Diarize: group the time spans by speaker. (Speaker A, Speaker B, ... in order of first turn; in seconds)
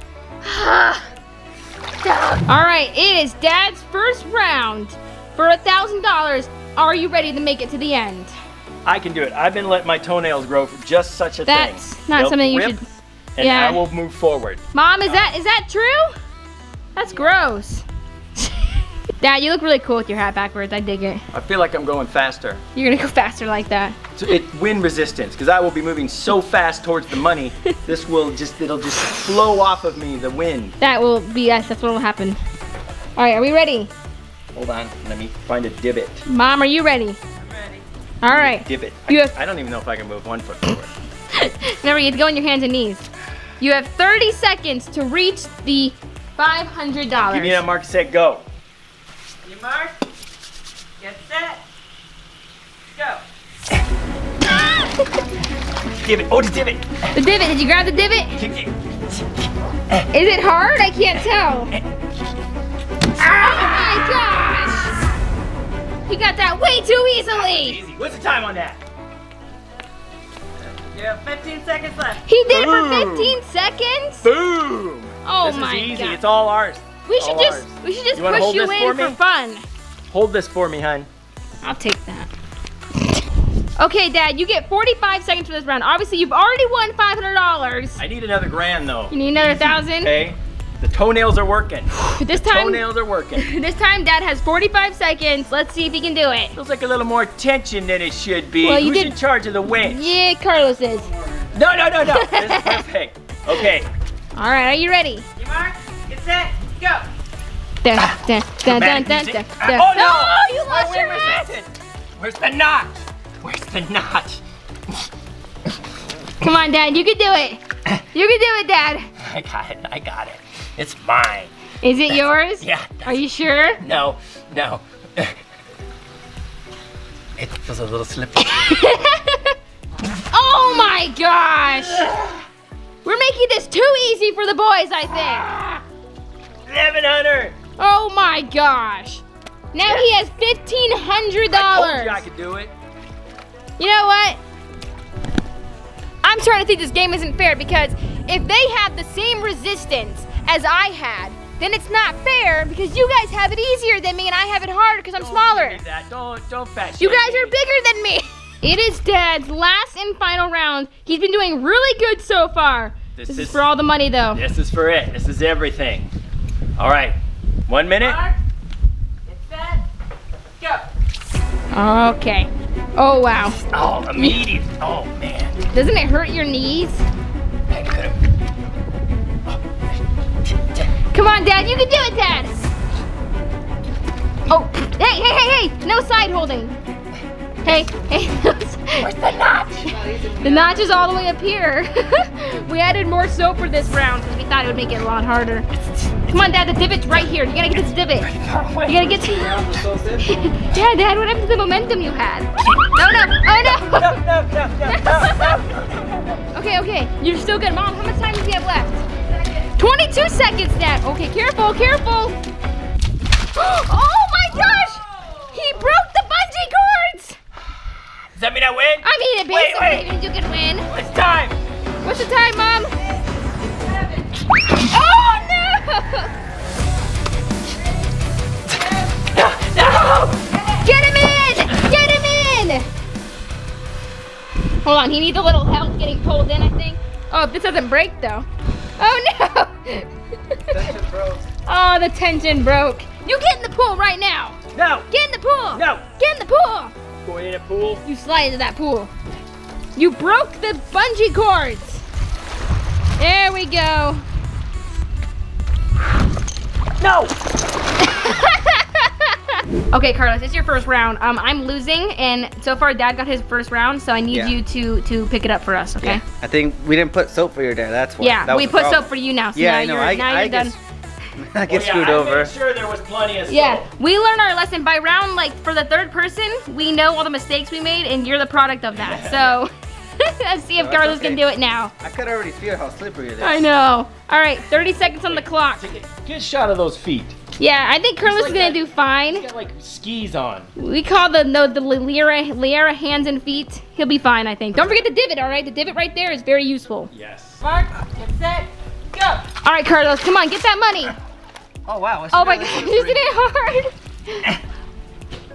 Speaker A: 0.4-1.1, 2.0-8.3, 11.5-12.8, 13.4-13.8, 14.7-16.1, 16.9-17.8, 18.4-18.7, 19.2-21.2, 22.7-24.0, 30.8-32.4, 33.1-33.9, 36.2-37.2, 38.2-39.3, 41.3-43.0, 43.6-47.6, 57.1-58.3, 60.1-61.7, 63.2-64.9, 66.1-67.8, 72.3-74.3, 75.2-76.2, 77.0-79.6, 81.6-82.3, 83.8-88.0, 89.1-90.1, 92.0-92.8, 93.4-96.5, 98.6-99.1, 99.7-101.1, 102.0-102.8, 104.3-105.2, 107.8-111.5, 116.4-117.6, 118.1-119.1, 121.8-123.8, 128.5-129.6, 130.3-132.1, 133.0-135.5, 137.8-142.2, 143.8-144.4, 146.2-155.8, 157.0-164.4, 171.7-173.6, 175.7-177.0, 181.1-182.6, 184.5-186.7, 187.6-189.1, 190.4-195.7, 196.3-198.3, 198.8-199.5, 200.2-204.2, 204.8-205.6, 206.5-209.0, 209.8-212.4, 213.5-217.4, 219.0-220.9, 222.0-222.9, 224.8-226.3, 230.8-232.9, 234.8-238.5, 239.0-240.8, 241.7-244.6, 245.1-246.9, 248.0-249.1, 249.9-252.0, 253.2-254.2, 258.0-266.2, 268.2-270.8, 273.5-281.9, 283.4-285.8, 287.6-289.4, 290.8-297.1, 299.6-301.1, 302.3-304.4
Speaker B: 8.8-15.3, 21.3-22.6, 24.1-30.8, 34.5-36.2, 38.2-40.9, 47.3-48.4, 56.0-56.8, 58.4-59.2, 67.4-68.8, 70.9-73.4, 74.2-79.2, 80.1-81.1, 88.0-93.5, 96.5-100.1, 101.5-103.9, 108.6-114.4, 119.2-121.5, 122.6-123.2, 123.8-125.4, 127.4-128.9, 132.0-132.3, 135.3-135.8, 136.7-137.6, 141.5-142.7, 155.2-157.6, 163.2-163.6, 164.3-166.1, 166.8-167.2, 167.7-168.2, 173.7-175.6, 177.7-178.2, 180.5-180.9, 189.0-189.9, 198.2-199.2, 203.6-206.4, 218.3-220.1, 220.9-221.6, 229.3-230.4, 244.7-245.1, 245.7-246.0, 247.2-248.0, 257.0-257.3, 271.7-273.9, 278.9-279.6, 285.2-287.4, 288.2-290.7, 297.1-297.6
Speaker C: 37.4-37.8, 49.4-49.9, 51.0-51.6, 52.9-53.2, 71.3-72.1, 105.4-107.0, 168.0-168.3, 169.2-169.8, 223.8-224.2, 297.6-299.4
Speaker D: 101.0-101.6, 189.8-190.9, 199.2-200.5, 240.7-241.4, 264.3-264.6, 266.0-270.8, 271.4-272.5, 280.8-281.4, 282.0-283.6, 294.7-295.0, 301.9-303.2